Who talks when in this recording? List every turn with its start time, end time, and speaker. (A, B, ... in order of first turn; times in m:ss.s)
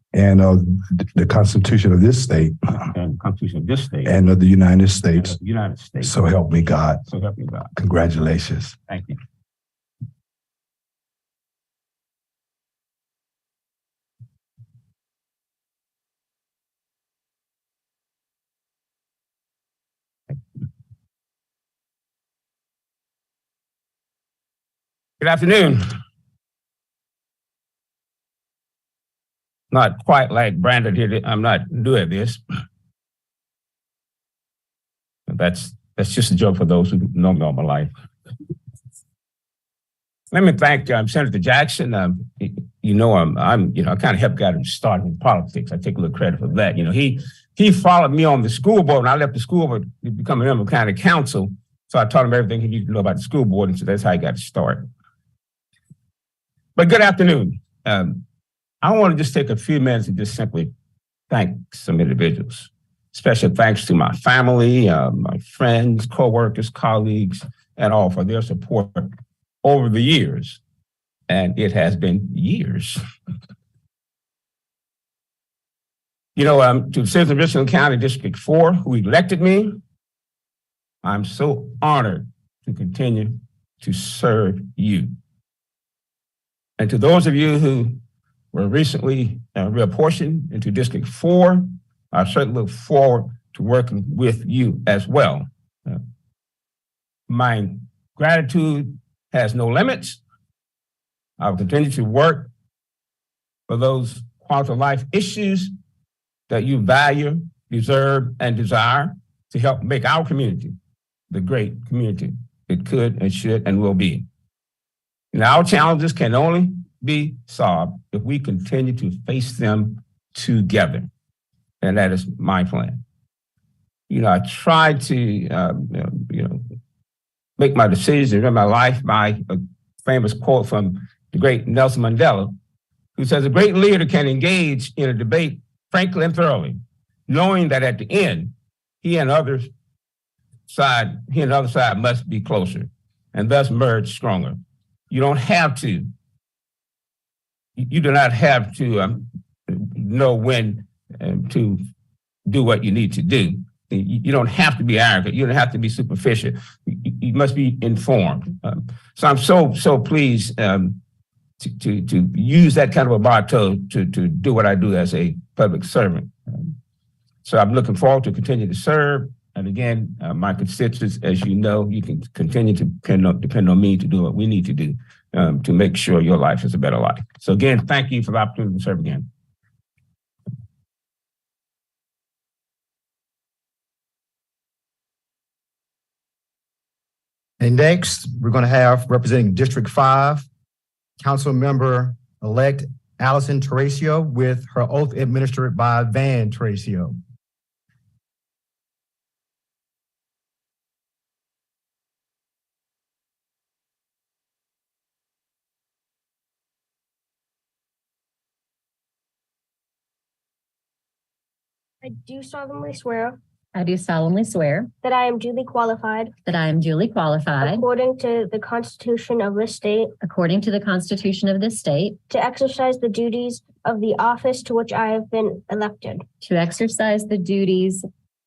0:00.1-0:02.9 A
0:02.9-0:04.2 B
0:04.0-0:05.4 A
0:05.1-0:06.2 B
0:06.0-0:07.0 A
0:07.0-0:07.7 B
0:07.7-0:08.8 A
0:08.9-0:09.2 B
0:25.2-0:25.8 B
0:29.7-0:32.4 B
0:35.3-0:37.9 B
0:40.3-0:54.9 B
0:56.8-0:58.2 B
0:58.8-1:00.7 B
1:01.3-1:09.1 B
1:09.6-1:10.6 B
1:11.3-1:13.0 B
1:16.4-1:19.8 B
1:21.0-1:25.1 B
1:26.8-1:28.0 B
1:28.5-1:36.0 B
1:37.3-1:40.2 B
1:41.4-1:42.5 B
1:43.7-1:45.7 B
1:46.5-1:50.8 B
1:51.3-1:54.2 B
1:55.3-2:01.1 B
2:01.8-2:03.0 B
2:04.1-2:06.6 B
2:07.6-2:12.5 B
2:13.2-2:19.7 B
2:20.7-2:24.6 B
2:25.1-2:26.1 B
2:27.8-2:31.8 B
2:32.4-2:41.0 B
2:41.6-2:46.7 B
2:47.4-2:59.3 B
3:07.6-3:10.5 C
3:11.2-3:17.2 C
3:32.0-3:33.4 D
3:33.8-3:34.9 E
3:35.0-3:36.3 D
3:36.4-3:37.8 E
3:37.6-3:40.1 D
3:40.2-3:42.2 E
3:42.3-3:46.2 D
3:46.4-3:48.0 E